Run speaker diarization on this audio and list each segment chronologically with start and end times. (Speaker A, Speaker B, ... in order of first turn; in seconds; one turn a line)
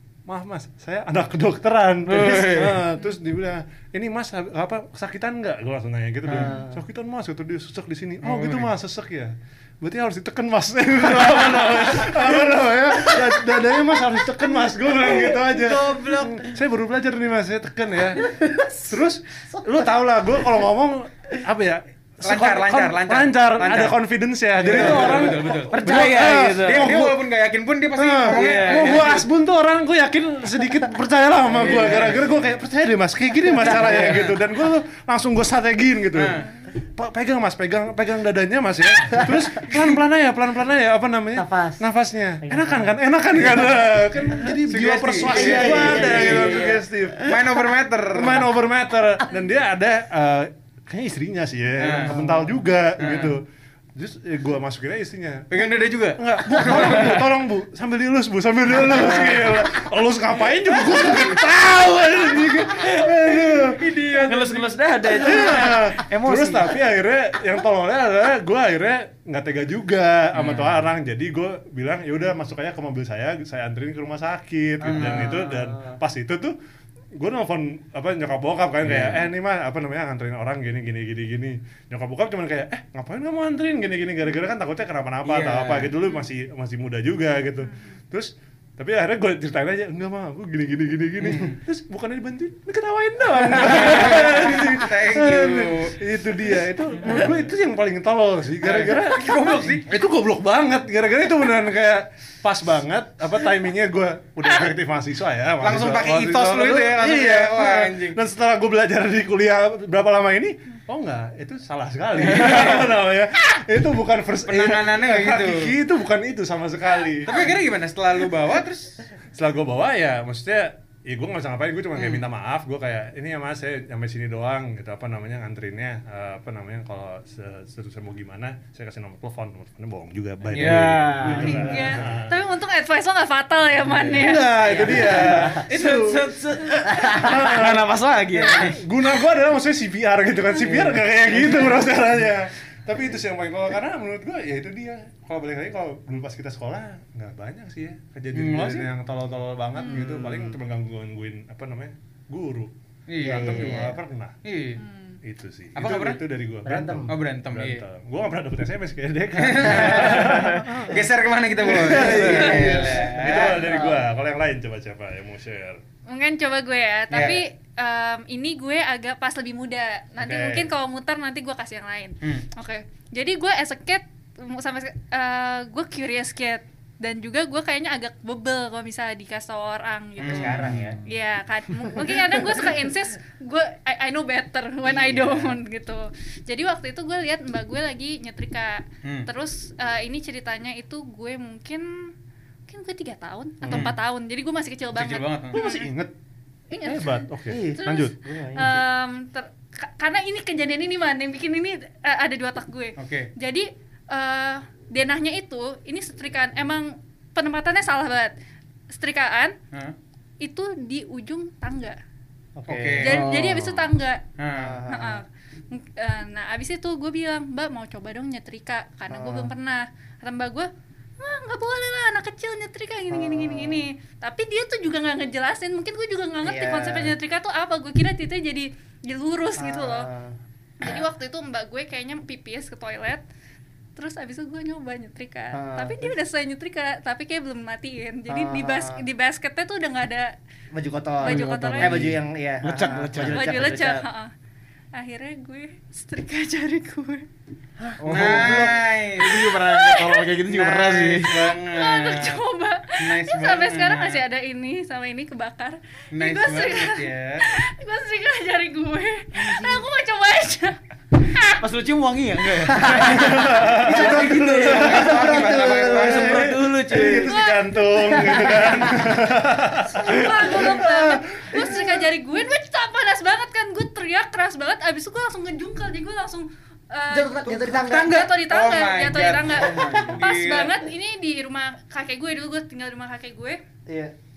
Speaker A: 0.3-27.1
Speaker B: 2.1-2.8
Speaker C: 6.3-6.8
Speaker D: 8.2-8.7
Speaker C: 13.2-13.7
Speaker D: 15.5-16.5
Speaker C: 18.2-18.9
Speaker C: 19.5-19.9
Speaker D: 22.2-24.0
Speaker D: 24.6-29.2
Speaker B: 24.7-27.1
Speaker C: 25.7-26.3
Speaker A: 28.0-36.4
Speaker B: 28.3-29.2
Speaker D: 31.6-32.3
Speaker D: 33.7-34.4
Speaker C: 33.7-34.0
Speaker D: 36.1-36.5
Speaker A: 37.0-47.4
Speaker C: 41.4-41.8
Speaker C: 42.5-42.9
Speaker D: 44.6-46.6
Speaker C: 45.1-46.9
Speaker D: 47.2-48.5
Speaker A: 48.1-55.6
Speaker D: 51.8-52.1
Speaker C: 52.0-52.6
Speaker D: 53.0-53.4
Speaker D: 55.5-57.3
Speaker A: 56.2-63.8
Speaker D: 63.8-65.3
Speaker B: 64.2-66.7
Speaker A: 65.2-76.5
Speaker D: 74.8-75.3
Speaker C: 74.9-76.0
Speaker A: 77.2-117.5
Speaker D: 85.2-85.9
Speaker D: 91.2-91.6
Speaker D: 93.5-96.0
Speaker D: 98.6-99.9
Speaker D: 105.6-108.2
Speaker D: 112.2-112.9
Speaker D: 114.5-115.7
Speaker D: 117.2-119.0
Speaker A: 119.3-132.4
Speaker D: 122.0-122.3
Speaker D: 130.5-131.6
Speaker B: 130.6-131.8
Speaker E: 131.4-134.5
Speaker A: 133.9-136.3
Speaker C: 134.7-135.6
Speaker B: 134.9-138.8
Speaker C: 136.9-137.4
Speaker A: 137.0-137.9
Speaker A: 138.5-152.7
Speaker D: 148.3-148.9
Speaker C: 149.9-150.5
Speaker D: 153.1-153.9
Speaker C: 153.2-154.0
Speaker A: 153.3-154.4
Speaker D: 154.4-154.8
Speaker E: 154.8-155.2
Speaker A: 155.2-160.9
Speaker D: 155.8-156.2
Speaker C: 156.7-157.1
Speaker D: 157.1-157.8
Speaker D: 159.4-163.6
Speaker C: 161.7-164.0
Speaker A: 161.7-165.8
Speaker B: 162.0-162.9
Speaker E: 166.1-192.1
Speaker D: 167.1-167.4
Speaker A: 170.2-170.7
Speaker D: 180.2-180.8
Speaker C: 180.2-181.0
Speaker B: 180.7-181.0
Speaker C: 184.8-185.6
Speaker E: 192.7-195.9
Speaker D: 193.7-194.0
Speaker D: 194.9-195.6
Speaker A: 195.5-196.1
Speaker E: 196.7-197.2
Speaker A: 196.8-198.1
Speaker C: 197.5-198.8
Speaker E: 197.8-208.3
Speaker D: 203.0-203.3
Speaker E: 208.9-209.6
Speaker E: 210.4-212.0
Speaker C: 212.6-213.3
Speaker D: 212.7-213.3
Speaker E: 213.0-214.2
Speaker B: 213.1-213.9
Speaker D: 214.4-214.8
Speaker C: 214.5-215.2
Speaker E: 214.9-230.1
Speaker C: 219.1-219.5
Speaker C: 223.1-223.9
Speaker C: 226.4-227.2
Speaker C: 229.6-231.0
Speaker E: 230.8-233.2
Speaker E: 234.0-240.3
Speaker C: 235.5-236.2
Speaker C: 238.3-239.0
Speaker C: 240.7-244.1
Speaker E: 241.2-242.1
Speaker B: 241.2-243.5
Speaker E: 243.3-244.3
Speaker E: 244.9-247.3
Speaker C: 247.8-248.8
Speaker B: 248.0-251.3
Speaker D: 248.1-249.5
Speaker E: 249.6-250.3
Speaker D: 250.5-252.4
Speaker E: 251.7-261.6
Speaker D: 253.0-254.2
Speaker D: 256.1-257.4
Speaker C: 259.4-259.8
Speaker B: 261.6-267.4
Speaker C: 262.7-267.1
Speaker A: 263.1-265.1
Speaker D: 263.8-266.5
Speaker A: 266.1-271.2
Speaker E: 267.2-267.8
Speaker C: 268.0-269.2
Speaker E: 269.9-283.6
Speaker C: 277.1-278.2
Speaker D: 277.6-280.7
Speaker C: 279.5-280.2
Speaker C: 283.9-284.1